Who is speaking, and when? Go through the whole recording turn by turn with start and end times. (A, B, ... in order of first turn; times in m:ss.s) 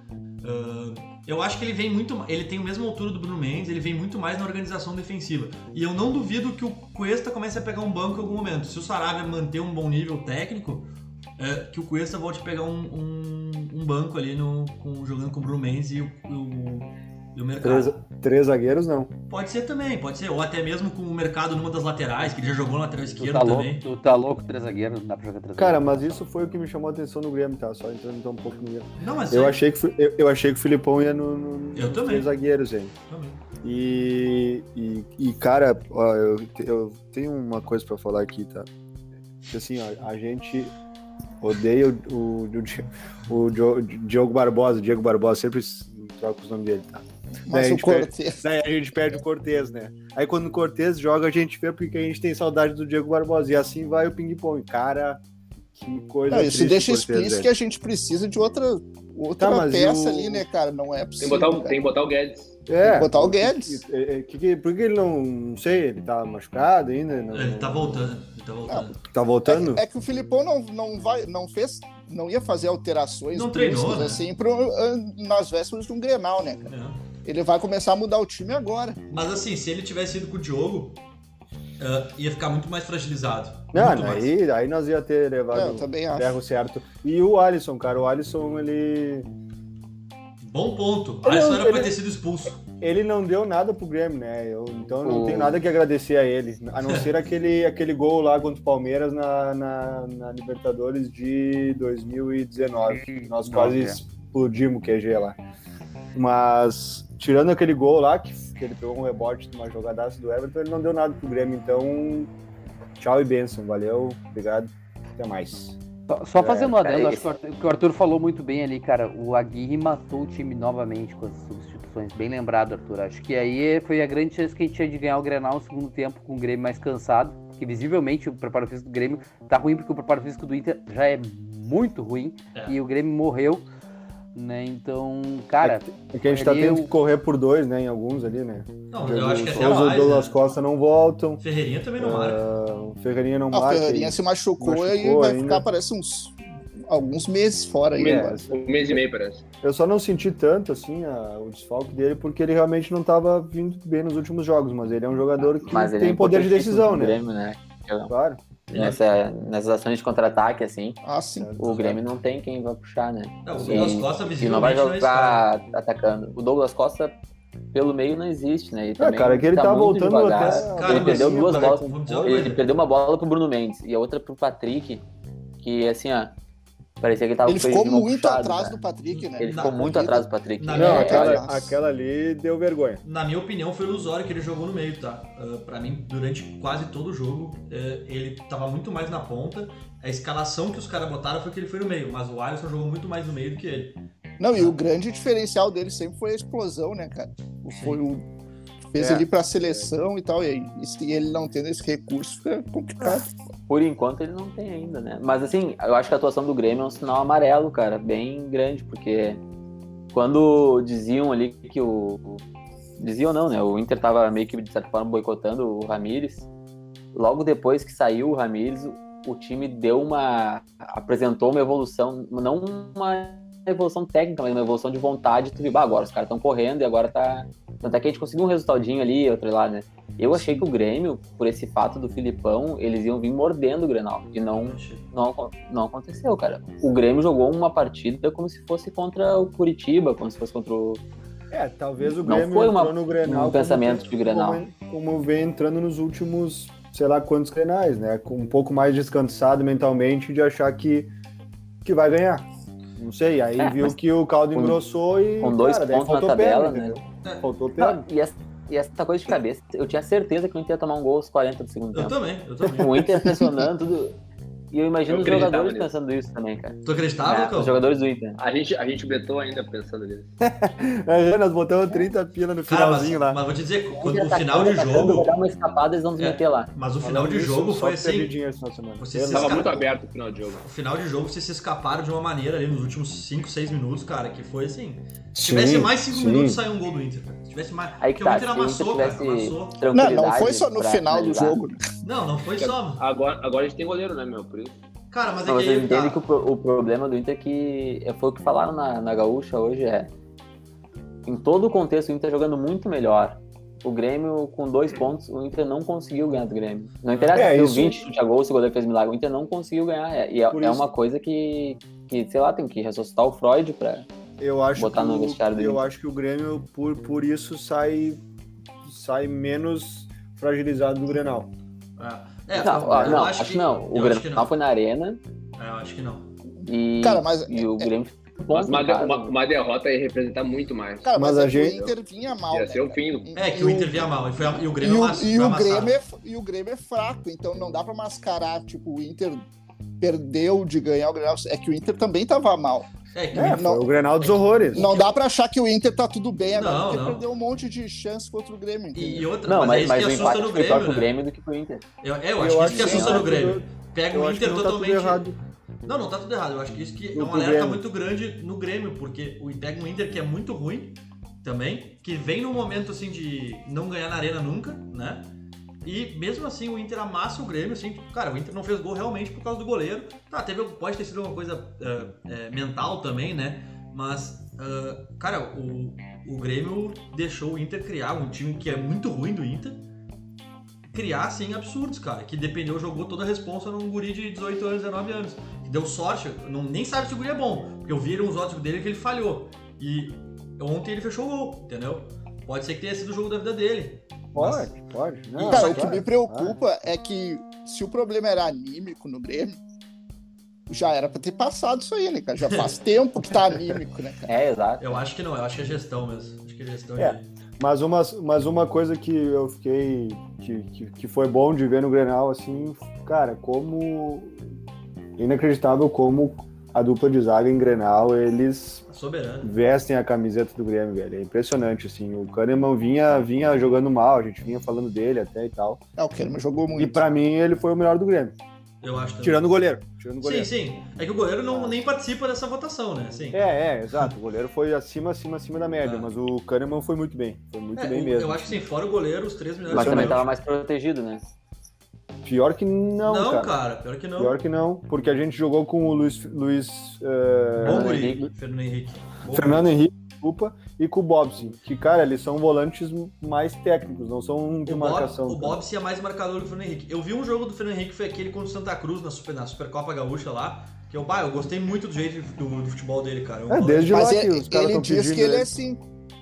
0:00.4-0:18.0 A
0:17.6-0:19.1 B
0:19.3-0:23.8 A
0:23.2-0:26.2 C
0:25.6-0:32.9 B
0:29.0-0:29.6 A
0:31.7-0:32.3 A
0:33.1-0:33.4 A
0:33.6-0:38.7 B
0:39.4-0:40.7 B
0:41.4-0:55.2 B
0:47.5-0:48.4 D
0:55.7-0:57.5 B
0:56.3-1:01.8 D
0:59.4-1:00.4 B
1:01.2-1:02.6 E
1:02.7-1:08.2 B
1:02.8-1:03.8 D
1:07.3-1:09.0 A
1:09.1-1:09.8 B
1:09.5-1:16.7 D
1:13.3-1:14.2 A
1:16.7-1:17.0 A
1:17.2-1:19.0 D
1:19.1-1:21.0 A
1:21.8-1:24.3 A
1:23.7-1:29.3 B
1:25.5-1:26.3 D
1:30.4-1:32.6 A
1:31.2-1:32.0 B
1:32.8-1:45.4 B
1:35.0-1:35.6 F
1:36.8-1:37.1 A
1:42.9-1:44.0 C
1:46.1-1:52.3 B
1:53.0-1:55.8 B
1:56.1-2:13.7 C
1:56.4-1:56.7 B
1:56.7-1:57.2 F
2:14.3-2:16.9 C
2:15.6-2:21.4 B
2:18.9-2:20.4 A
2:21.4-2:22.4 A
2:22.0-2:25.6 B
2:23.5-2:26.4 D
2:26.9-2:28.4 D
2:28.0-2:29.4 E
2:28.0-2:28.8 B
2:29.6-2:37.2 B
2:35.6-2:38.1 F
2:38.1-2:38.4 B
2:38.7-2:41.0 F
2:38.7-2:39.0 A
2:41.0-2:41.7 D
2:41.4-2:41.6 B
2:41.6-2:47.2 F
2:41.6-2:41.9 A
2:43.4-2:45.4 A
2:47.7-2:55.0 F
2:49.0-2:52.5 B
2:50.3-2:52.6 A
2:55.6-2:56.4 F
2:57.0-2:58.8 F
2:57.4-3:01.7 D
2:59.1-3:00.0 A
2:59.4-3:01.5 F
3:00.6-3:01.3 A
3:00.7-3:03.0 B
3:03.0-3:14.0 A
3:14.4-3:18.2 D
3:17.7-3:18.0 A
3:18.9-3:23.4 D
3:23.7-3:29.4 F
3:30.1-3:32.4 F
3:33.0-3:36.5 F
3:37.1-4:01.0 F
3:54.6-3:55.0 A
4:01.5-4:11.1 B
4:02.2-4:04.6 F
4:11.8-4:12.4 B
4:13.0-4:18.0 B
4:13.6-4:14.0 F
4:14.5-4:14.8 F
4:15.4-4:17.0 F
4:17.8-4:22.2 F
4:21.9-4:23.0 A
4:22.6-4:23.7 B
4:22.8-4:24.2 F
4:24.7-4:28.4 F
4:25.1-4:25.9 E
4:26.8-4:27.8 A
4:28.4-4:30.3 E
4:30.4-4:33.4 B
4:32.7-4:35.3 A
4:33.9-4:36.7 F
4:35.0-4:35.2 B
4:36.2-4:38.3 A
4:37.0-4:39.8 B
4:39.0-4:39.8 A
4:39.3-4:40.6 E
4:40.6-4:49.8 A
4:45.3-4:46.6 B
4:48.0-4:51.6 F
4:49.9-4:51.8 D
4:52.0-4:53.0 A
4:52.6-4:54.7 E
4:55.1-4:56.3 A
4:55.5-5:00.1 F
5:01.2-5:14.1 F
5:07.1-5:07.6 A
5:07.3-5:08.1 B
5:10.5-5:10.9 B
5:14.4-5:18.2 B
5:14.8-5:15.8 F
5:18.8-5:21.5 B
5:22.0-5:24.5 A
5:22.5-5:25.2 F
5:25.6-5:26.3 A
5:26.6-5:29.3 F
5:27.0-5:27.9 D
5:28.6-5:31.9 E
5:31.0-5:34.1 D
5:31.1-5:31.9 B
5:32.5-5:33.3 E
5:33.3-5:36.0 A
5:34.8-5:39.4 D
5:40.0-5:42.9 D
5:43.1-5:43.7 A
5:43.3-5:44.9 B
5:43.5-5:43.8 D
5:44.2-5:45.0 A
5:44.7-5:49.3 D
5:46.5-5:47.2 A
5:48.9-5:51.1 A
5:49.4-5:51.8 F
5:52.0-5:55.3 A
5:52.4-5:55.4 B
5:52.7-5:53.2 D
5:52.8-5:53.2 F
5:55.8-6:05.3 A
5:57.1-5:57.8 B
6:05.8-6:19.8 A
6:20.9-6:34.7 A
6:34.3-6:36.6 B
6:35.3-6:36.0 A
6:35.5-6:39.6 D
6:40.7-6:44.3 D
6:44.2-6:45.0 F
6:44.8-6:47.3 A
6:47.0-6:54.4 B
6:55.2-6:58.8 B
6:58.9-6:59.5 A
6:59.4-7:05.8 B
7:06.0-7:07.0 D
7:06.8-7:08.3 B
7:08.8-7:09.6 A
7:09.2-7:10.5 B
7:10.2-7:13.4 A
7:13.3-7:18.6 B
7:15.8-7:16.1 A
7:17.7-7:20.3 A
7:19.7-7:20.2 B
7:19.7-7:21.2 F
7:22.2-7:23.6 B
7:23.0-7:24.4 A
7:24.2-7:27.9 B
7:27.6-7:29.7 A
7:27.6-7:28.3 F
7:29.3-7:35.6 B
7:34.6-7:44.0 A
7:43.5-7:45.5 B
7:43.9-7:45.8 D